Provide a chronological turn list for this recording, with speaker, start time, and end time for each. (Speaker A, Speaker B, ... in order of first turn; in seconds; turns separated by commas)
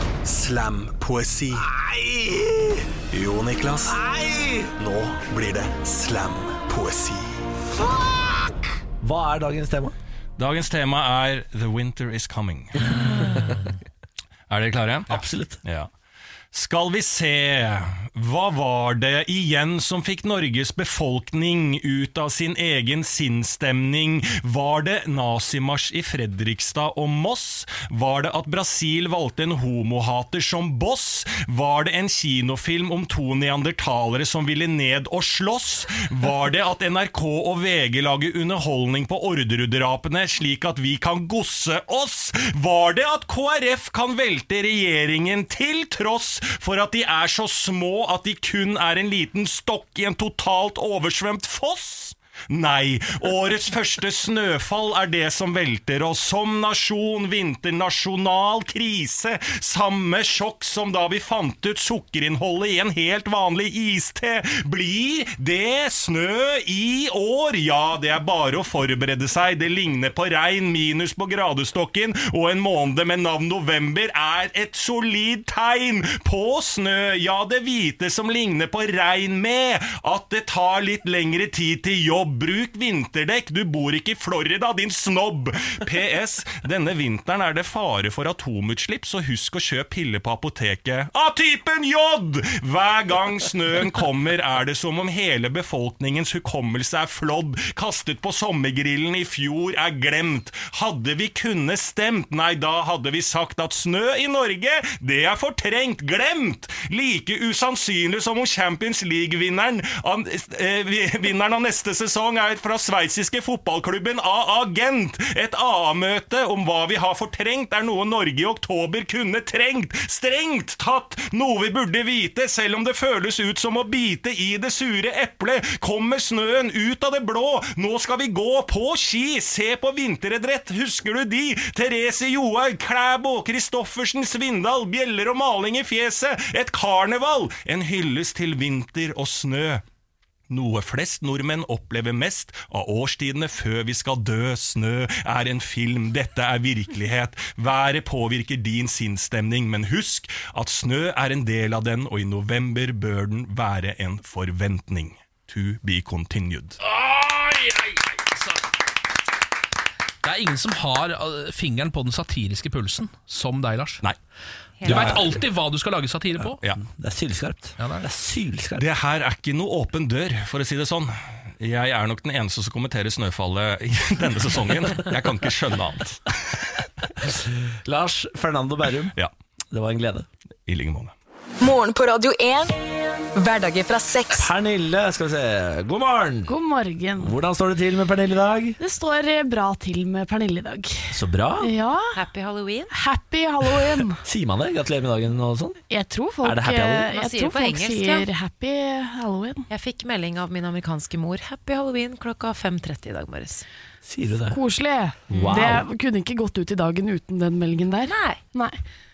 Speaker A: 0.2-1.7, Speaker B: 1.5-2.8, Speaker A: 3.1-4.0, Speaker B: 3.9-4.7, Speaker A: 4.8-7.3, Speaker B: 9.0-9.9, Speaker C: 10.4-13.0, Speaker B: 12.9-13.5, Speaker C: 14.5-15.9, Speaker B: 15.1-15.6, Speaker C: 16.5-139.8, Speaker C: 140.5-156.8, Speaker D: 156.8-158.6, Speaker D: 160.2-164.0, Speaker E: 164.8-165.2, Speaker D: 164.8-166.6, Speaker C: 164.9-165.2, Speaker B: 164.9-165.2, Speaker B: 166.8-168.8, Speaker D: 167.8-168.1, Speaker C: 168.8-176.2, Speaker B: 177.2-179.1, Speaker B: 179.7-180.3, Speaker C: 180.7-181.1, Speaker F: 181.6-182.8, Speaker F: 183.3-184.5, Speaker B: 184.3-186.5, Speaker G: 186.5-187.3, Speaker B: 187.2-188.8, Speaker G: 188.8-192.2, Speaker B: 191.1-191.7, Speaker E: 192.1-192.9, Speaker G: 192.9-194.2, Speaker B: 194.2-195.8, Speaker G: 195.9-199.7, Speaker B: 196.4-197.1, Speaker E: 197.1-198.3, Speaker E: 199.7-203.6, Speaker B: 204.0-204.6, Speaker G: 204.5-208.8, Speaker B: 205.3-205.8, Speaker E: 208.1-208.4